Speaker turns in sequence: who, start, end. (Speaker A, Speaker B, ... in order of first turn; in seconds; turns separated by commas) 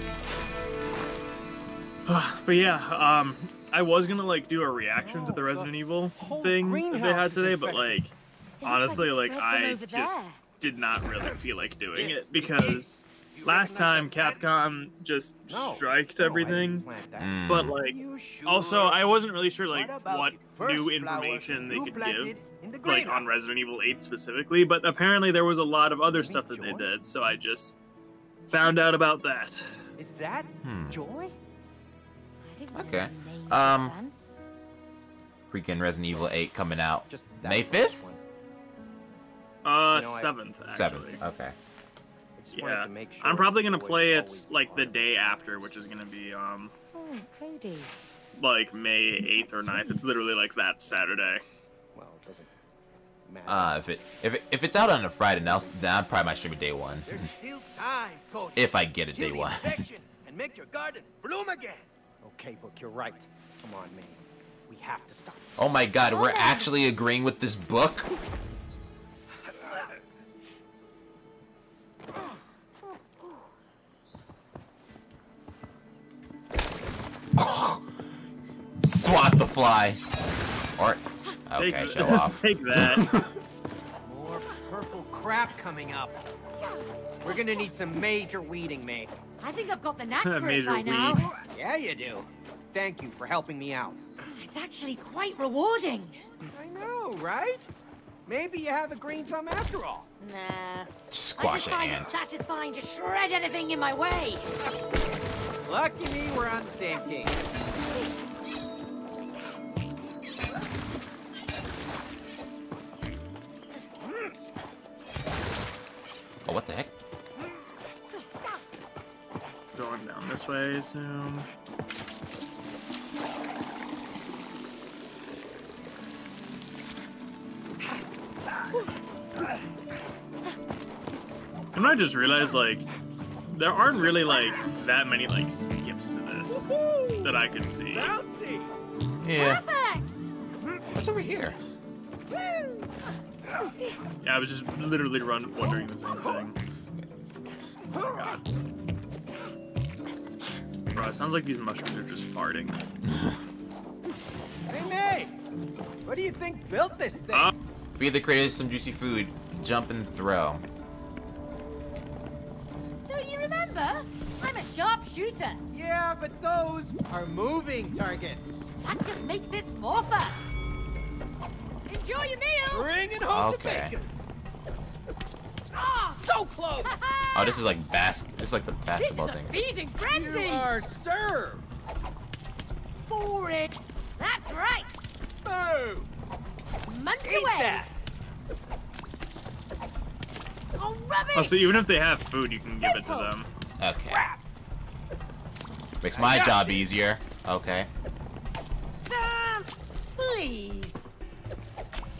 Speaker A: 2.1-16.9, Speaker B: 5.0-8.0, Speaker C: 8.6-10.4, Speaker B: 11.9-14.4, Speaker B: 15.5-19.0, Speaker D: 17.2-17.7, Speaker A: 17.5-27.8, Speaker B: 19.7-23.3, Speaker B: 26.1-26.9, Speaker A: 28.5-29.8, Speaker B: 30.0-31.3, Speaker D: 30.6-31.0, Speaker C: 32.4-34.5, Speaker D: 32.7-34.0, Speaker D: 35.5-38.0, Speaker B: 37.1-38.2, Speaker A: 39.6-41.2, Speaker B: 39.9-40.3, Speaker D: 40.7-41.5, Speaker B: 42.4-45.0, Speaker A: 42.5-46.7, Speaker C: 46.9-48.0, Speaker A: 48.4-51.4, Speaker C: 49.2-50.0, Speaker B: 51.9-52.5, Speaker B: 53.3-53.8, Speaker D: 53.5-57.3, Speaker B: 57.0-65.8, Speaker D: 58.5-59.8, Speaker D: 65.6-68.1, Speaker C: 66.0-66.7, Speaker D: 77.3-78.0, Speaker D: 78.8-80.0, Speaker D: 80.8-83.4, Speaker A: 81.6-83.1, Speaker B: 84.0-86.2, Speaker C: 86.6-87.7, Speaker B: 87.2-89.2, Speaker C: 89.4-91.3, Speaker A: 90.2-91.3, Speaker B: 91.4-94.0, Speaker C: 94.3-96.2, Speaker B: 96.5-97.7, Speaker B: 98.2-100.1, Speaker C: 100.2-104.5, Speaker D: 101.1-102.1, Speaker B: 105.7-107.3, Speaker D: 116.5-116.9, Speaker A: 119.7-121.5, Speaker A: 131.7-132.8, Speaker A: 133.5-136.7, Speaker B: 134.0-134.6, Speaker B: 136.5-137.3, Speaker A: 137.2-138.2, Speaker B: 137.9-138.7, Speaker D: 139.2-139.6, Speaker C: 139.3-140.3, Speaker D: 140.9-141.6, Speaker A: 144.2-146.6, Speaker B: 147.9-148.4, Speaker A: 150.9-152.8, Speaker B: 154.7-155.3, Speaker B: 156.0-157.5, Speaker D: 157.9-160.6, Speaker C: 163.1-165.6, Speaker B: 165.7-168.7, Speaker C: 168.8-170.4, Speaker C: 171.9-172.9, Speaker B: 172.7-174.1, Speaker D: 173.3-173.9, Speaker C: 175.7-176.2, Speaker B: 176.2-177.1, Speaker C: 176.8-177.6, Speaker D: 177.3-179.6, Speaker C: 178.9-180.7, Speaker B: 180.1-181.6, Speaker C: 183.1-185.0, Speaker B: 185.4-186.1, Speaker C: 186.8-187.8, Speaker B: 187.2-188.0, Speaker C: 190.7-191.8, Speaker A: 191.3-193.5, Speaker C: 192.8-193.3, Speaker D: 193.8-194.2, Speaker B: 194.1-194.4, Speaker D: 196.0-197.9, Speaker B: 196.1-196.8, Speaker C: 199.1-201.1